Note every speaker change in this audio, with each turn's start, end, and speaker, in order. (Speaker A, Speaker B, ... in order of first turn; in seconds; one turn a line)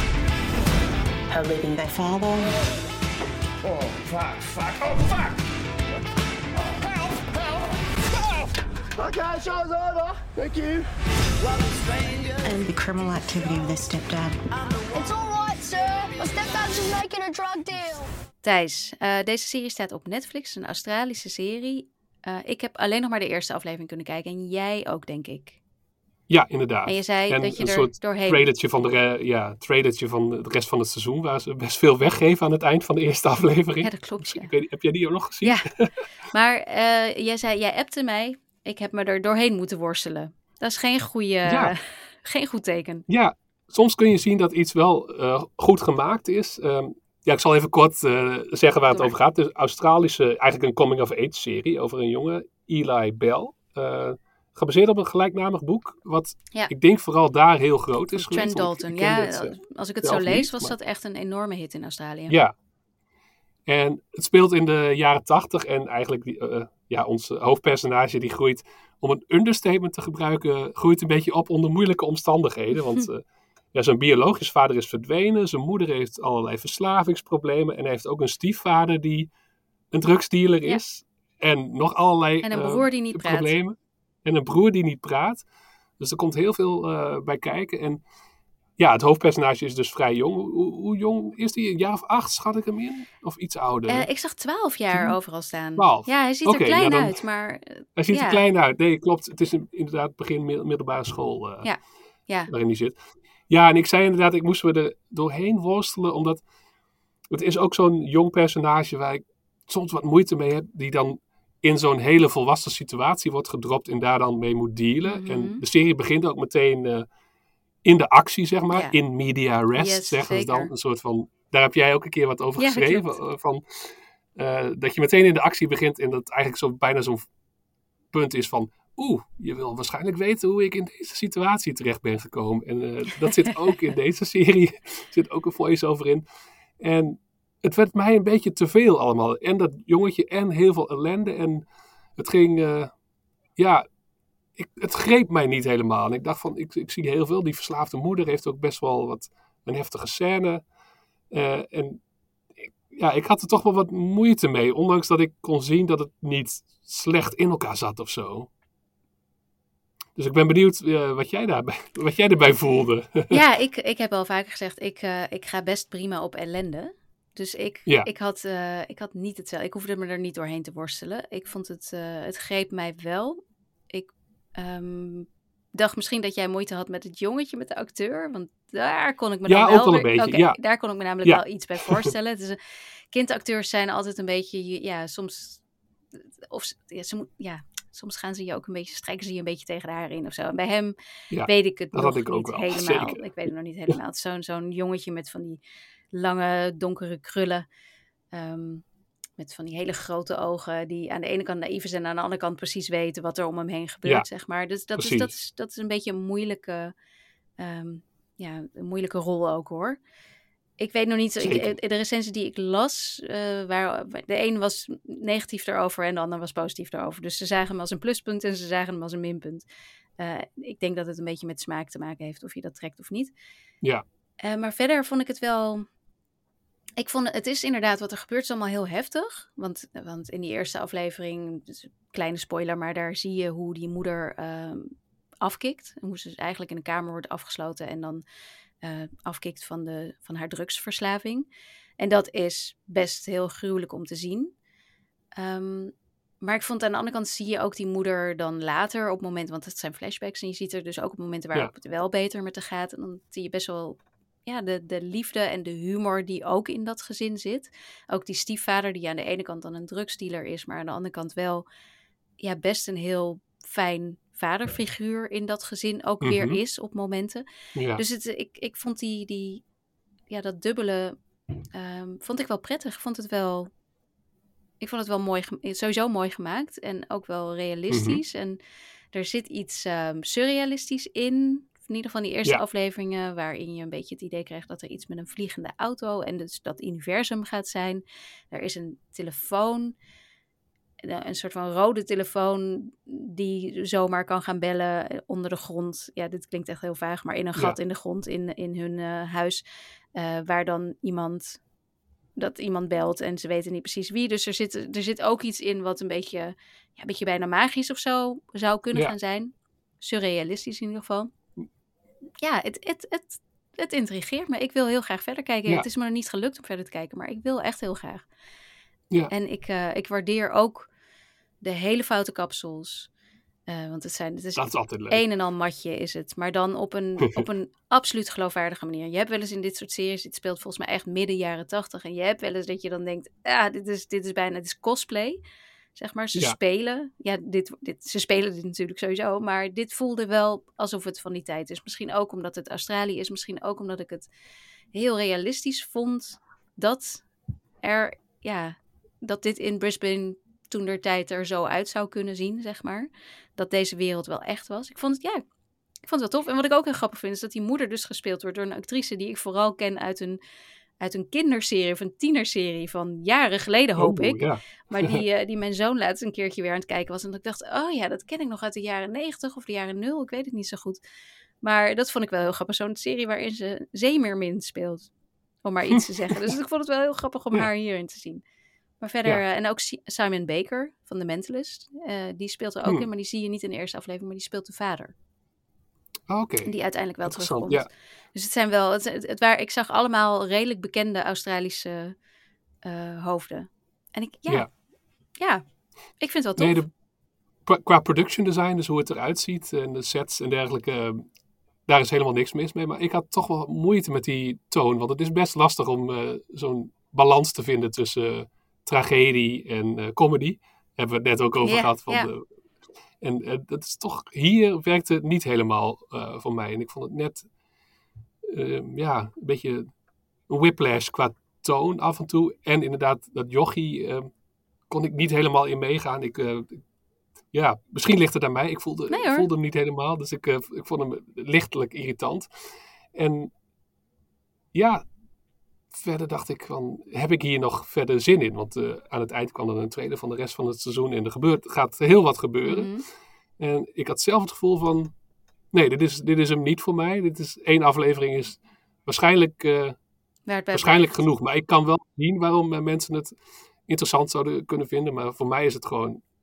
Speaker A: 1.3-2.5
Speaker B: 3.6-5.3
Speaker B: 9.0-10.8
Speaker A: 12.4-14.4
Speaker C: 14.9-18.1
Speaker D: 18.4-25.6
Speaker E: 26.3-35.9
Speaker D: 26.9-28.4
Speaker D: 33.8-34.5
Speaker D: 35.4-35.7
Speaker D: 36.2-43.0
Speaker E: 41.4-41.7
Speaker E: 43.1-60.7
Speaker D: 58.2-62.4
Speaker E: 62.3-62.5
Speaker E: 63.6-79.3
Speaker E: 79.9-85.4
Speaker D: 82.4-83.5
Speaker E: 86.0-88.0
Speaker E: 88.8-94.1
Speaker D: 93.9-98.4
Speaker E: 95.8-97.2
Speaker E: 98.0-101.7
Speaker D: 101.6-102.5
Speaker E: 102.5-103.0
Speaker E: 103.5-106.4
Speaker E: 107.3-117.0
Speaker D: 115.0-115.6
Speaker E: 117.8-127.3
Speaker D: 118.7-119.0
Speaker D: 119.7-120.7
Speaker D: 122.6-123.2
Speaker E: 128.1-136.2
Speaker E: 136.8-141.6
Speaker E: 142.2-142.9
Speaker E: 143.6-143.8
Speaker E: 144.5-150.6
Speaker E: 151.3-152.0
Speaker E: 152.6-158.5
Speaker E: 160.2-163.4
Speaker D: 163.3-173.4
Speaker D: 173.9-182.6
Speaker E: 179.5-180.6
Speaker E: 181.2-182.1
Speaker D: 183.1-185.6
Speaker D: 186.5-190.9
Speaker E: 191.3-193.2
Speaker D: 191.4-195.6
Speaker D: 196.1-197.7
Speaker D: 198.3-198.8
Speaker D: 199.4-206.9
Speaker E: 204.9-205.3
Speaker D: 207.6-210.0
Speaker D: 210.8-219.6
Speaker E: 211.4-211.8
Speaker D: 220.2-223.3
Speaker D: 224.4-225.8
Speaker D: 227.0-238.2
Speaker D: 238.8-241.5
Speaker D: 242.0-244.5
Speaker D: 245.4-261.6
Speaker D: 262.4-267.4
Speaker E: 266.2-266.6
Speaker E: 267.8-268.0
Speaker D: 267.9-269.6
Speaker D: 270.3-271.1
Speaker D: 271.7-273.7
Speaker D: 274.8-278.6
Speaker E: 277.9-278.2
Speaker D: 279.1-289.9
Speaker D: 291.0-299.6
Speaker D: 300.1-301.6
Speaker D: 302.4-311.3
Speaker D: 312.4-318.2
Speaker D: 319.3-320.9
Speaker D: 321.6-323.1
Speaker D: 323.7-335.4
Speaker E: 324.6-325.2
Speaker D: 335.9-344.3
Speaker D: 344.9-347.2
Speaker D: 347.8-355.4
Speaker D: 356.1-360.4
Speaker D: 361.0-371.0
Speaker E: 364.0-365.2
Speaker D: 371.6-375.1
Speaker D: 375.6-378.4
Speaker E: 375.9-376.5
Speaker D: 379.0-385.1
Speaker E: 386.3-386.7
Speaker D: 386.6-392.1
Speaker E: 387.2-387.9
Speaker D: 392.8-394.7
Speaker D: 395.4-395.6
Speaker D: 396.2-396.8
Speaker E: 396.6-396.9
Speaker E: 397.6-401.2
Speaker E: 401.9-412.4
Speaker D: 411.6-412.3
Speaker E: 413.2-417.4
Speaker E: 418.4-419.9
Speaker E: 420.5-424.3
Speaker E: 424.9-426.8
Speaker E: 427.5-432.5
Speaker D: 429.1-429.5
Speaker E: 433.1-433.5
Speaker E: 434.7-435.0
Speaker E: 435.9-442.9
Speaker D: 442.6-443.0
Speaker E: 443.6-445.1
Speaker E: 445.7-449.9
Speaker D: 450.5-451.2
Speaker E: 450.7-456.2